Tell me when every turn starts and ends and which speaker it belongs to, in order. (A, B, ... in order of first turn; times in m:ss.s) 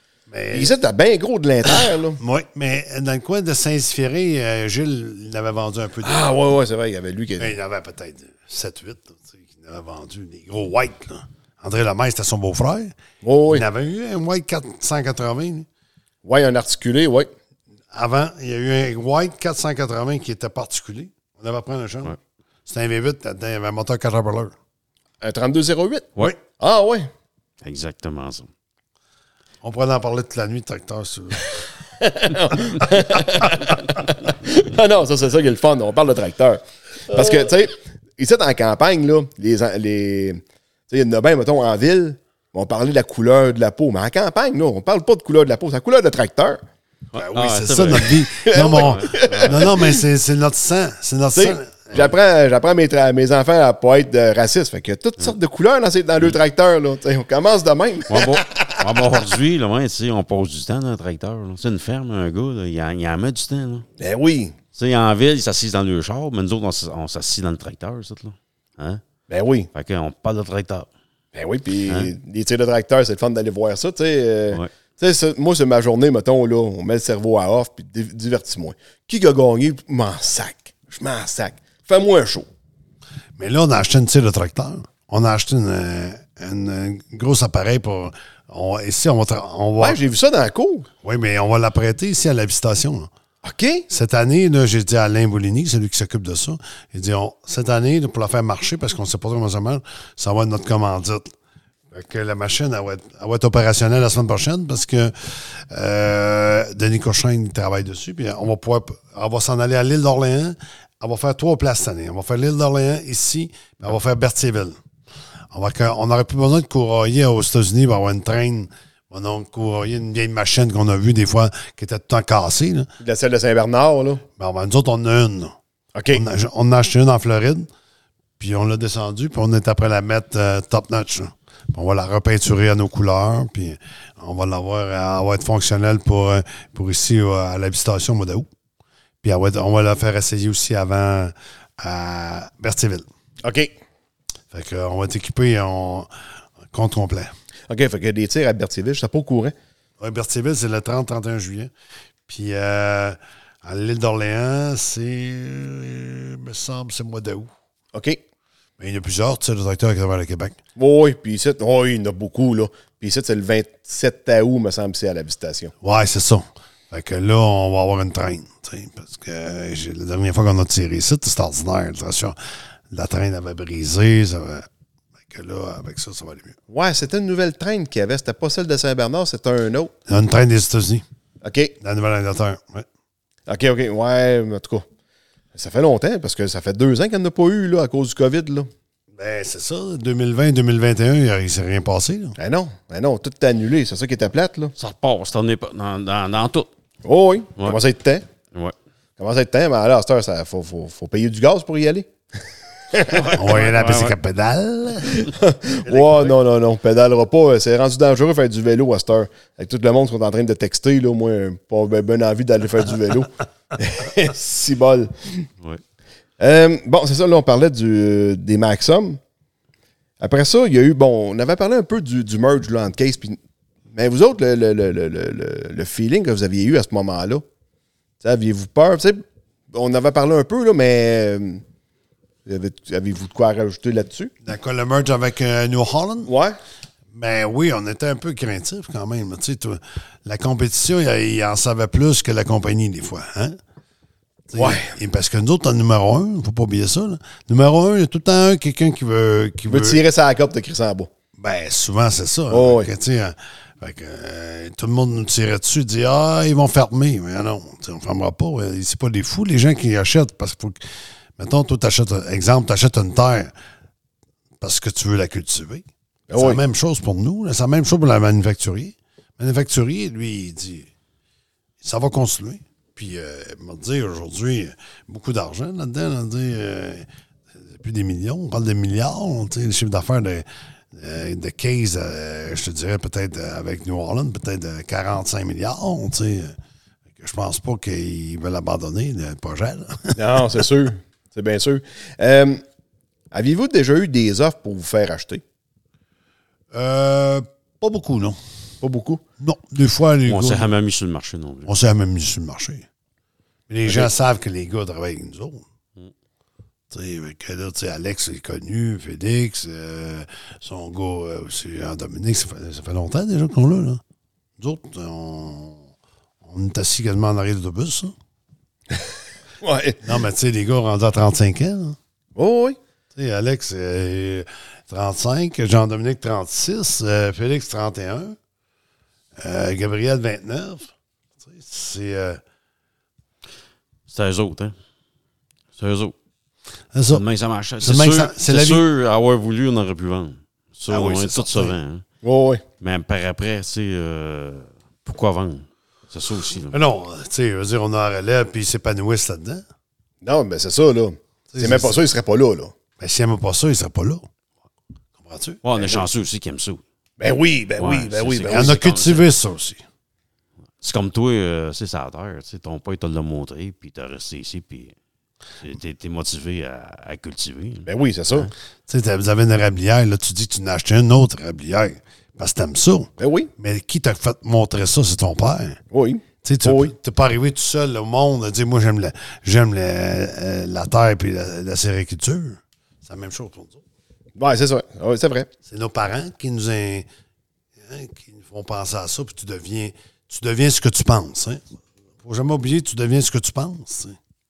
0:00.3-0:00.8 A
0:00.5-0:02.2 B
0:01.6-0:06.3 A
0:06.0-0:07.5 B
0:07.4-0:13.0 A
0:13.2-0:13.6 B
0:13.5-0:15.7 A
0:16.2-0:17.3 B
0:17.9-0:22.2 A
0:22.7-0:24.6 A
0:25.2-0:27.1 B
0:27.6-0:28.5 C
0:29.6-0:31.6 A
0:32.0-0:46.6 B
0:47.1-0:49.7 C
0:47.2-0:52.1 A
0:48.4-0:50.0 B
0:51.4-0:59.3 B
0:58.1-1:03.9 C
1:04.0-1:04.6 B
1:04.8-1:09.0 C
1:09.3-1:09.7 B
1:09.7-1:10.9 C
1:11.4-1:22.5 B
1:11.9-1:12.1 C
1:23.4-1:30.0 A
1:29.8-1:30.9 B
1:31.0-1:33.1 A
1:33.4-1:33.9 B
1:33.9-1:41.3 A
1:41.9-1:54.8 A
1:55.5-2:02.9 A
2:03.0-2:04.2 B
2:04.4-2:05.6 A
2:05.9-2:06.2 B
2:06.1-2:07.7 A
2:08.4-2:18.5 A
2:19.2-2:23.1 A
2:23.4-2:23.7 B
2:24.5-2:26.1 A
2:26.7-2:27.3 A
2:27.7-2:29.5 B
2:30.0-2:31.7 A
2:32.3-2:37.5 A
2:37.9-2:38.2 B
2:38.8-2:40.6 A
2:40.8-2:45.7 B
2:45.8-2:52.4 A
2:52.9-2:54.7 A
2:55.2-2:56.6 A
2:56.7-2:59.9 B
3:00.1-3:01.0 A
3:01.4-3:01.7 B
3:01.8-3:02.9 A
3:03.5-3:04.8 B
3:05.5-3:08.7 B
3:09.2-3:12.4 A
3:12.4-3:14.7 B
3:14.8-3:16.7 C
3:17.0-3:18.2 B
3:19.2-3:23.4 B
3:23.1-3:24.2 C
3:23.4-3:25.3 A
3:25.1-3:35.5 B
3:25.8-3:26.4 A
3:36.4-3:39.2 B
3:40.2-3:43.4 B
3:43.9-3:47.4 B
3:48.2-3:51.6 B
3:52.5-3:54.3 B
3:54.4-3:56.3 A
3:56.3-3:56.6 B
3:57.1-4:03.6 A
4:04.5-4:10.0 A
4:04.5-4:04.9 B
4:09.7-4:11.1 B
4:11.4-4:20.8 A
4:12.5-4:12.9 B
4:21.4-4:23.5 A
4:24.6-4:30.9 A
4:26.3-4:26.6 B
4:31.8-4:37.1 A
4:37.6-4:46.6 A
4:47.2-4:50.6 A
4:50.2-4:52.6 B
4:53.3-4:55.4 B
4:56.7-4:58.4 A
4:58.8-4:59.2 B
4:59.4-5:00.7 A
5:00.3-5:01.7 C
5:01.7-5:02.9 A
5:03.7-5:05.6 A
5:06.9-5:14.0 A
5:14.6-5:15.9 A
5:16.4-5:18.1 A
5:19.6-5:20.0 B
5:20.0-5:22.0 A
5:22.4-5:22.8 B
5:23.2-5:28.4 A
5:29.4-5:32.4 A
5:34.1-5:34.8 C
5:35.8-5:36.2 C
5:36.9-5:37.2 A
5:37.1-5:42.0 C
5:37.8-5:38.8 A
5:40.9-5:41.8 A
5:42.2-5:42.6 B
5:42.8-5:46.8 C
5:46.7-5:49.6 A
5:50.2-5:52.7 B
5:51.5-5:52.0 A
5:53.0-5:54.3 A
5:55.2-5:55.6 A
5:55.6-5:56.8 C
5:55.8-5:56.0 B
5:57.2-5:58.8 B
5:57.8-5:59.3 C
5:58.5-5:59.8 A
6:00.8-6:05.0 C
6:05.6-6:08.5 C
6:07.8-6:08.5 B
6:08.9-6:15.8 A
6:13.2-6:13.5 B
6:15.9-6:16.9 B
6:16.4-6:23.8 A
6:24.4-6:25.5 B
6:25.7-6:27.1 A
6:27.8-6:31.6 A
6:32.2-6:34.2 A